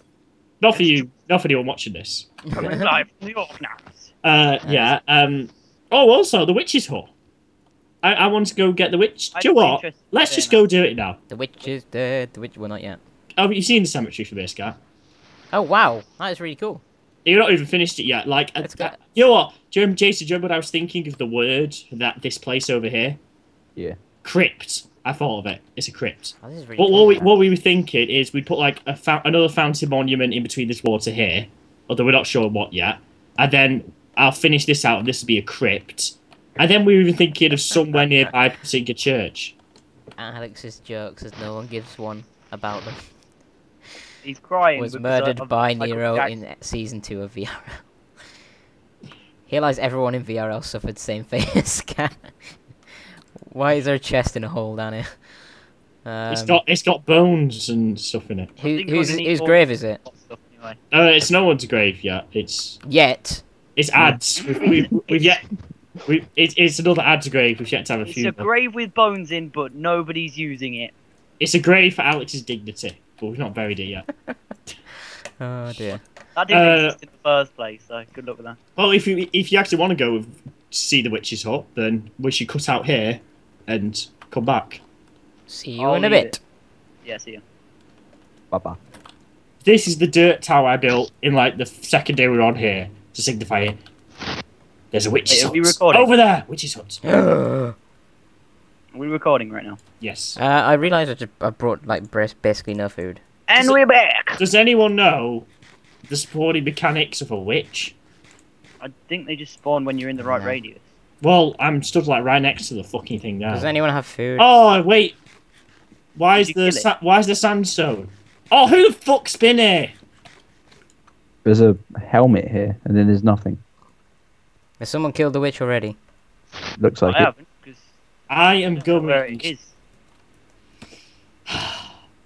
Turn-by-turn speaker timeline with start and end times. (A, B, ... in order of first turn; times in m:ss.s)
0:00.6-0:02.4 A
0:02.5-0:02.9 B
0:02.5-0:04.1 C
0:04.2-0:07.1 A
0:04.6-0:05.0 B
0:08.0-0:11.2 A
0:09.3-0:10.6 C
0:11.3-0:13.0 B
0:13.4-0:14.8 A
0:15.5-0:16.8 B
0:17.2-0:23.2 A
0:18.6-0:19.0 B
0:24.2-0:39.5 A
0:26.4-0:27.3 B
0:40.2-0:43.1 B
0:44.2-0:46.4 C
0:44.8-0:47.8 B
0:49.5-0:52.3 B
0:53.4-0:55.2 B
0:56.0-0:56.6 B
0:56.3-0:58.5 A
0:58.6-1:00.0 B
0:58.6-1:00.8 C
1:00.9-1:02.8 A
1:02.8-1:03.4 B
1:03.8-1:05.4 A
1:04.5-1:05.4 C
1:06.0-1:08.5 A
1:08.0-1:10.9 C
1:11.4-1:14.0 A
1:15.4-1:16.0 B
1:16.3-1:18.6 C
1:16.5-1:17.0 A
1:18.8-1:24.8 A
1:25.5-1:26.4 B
1:25.8-1:26.4 C
1:27.0-1:27.4 C
1:28.5-1:28.8 D
1:29.6-1:33.8 A
1:34.9-1:37.0 A
1:35.3-1:36.1 C
1:37.0-1:37.7 B
1:38.9-1:39.8 C
1:40.0-1:40.4 A
1:40.4-1:43.2 B
1:43.5-1:44.4 C
1:44.4-1:45.5 A
1:46.1-1:47.9 A
1:48.8-1:50.8 C
1:50.2-1:50.6 B
1:51.2-1:53.7 A
1:53.5-1:54.5 B
1:54.4-1:55.2 A
1:56.1-1:59.9 A
1:56.4-1:56.8 C
2:01.4-2:03.6 D
2:04.8-2:06.0 B
2:06.8-2:07.3 D
2:07.0-2:07.9 C
2:08.3-2:09.5 A
2:08.8-2:09.7 C
2:11.5-2:11.8 A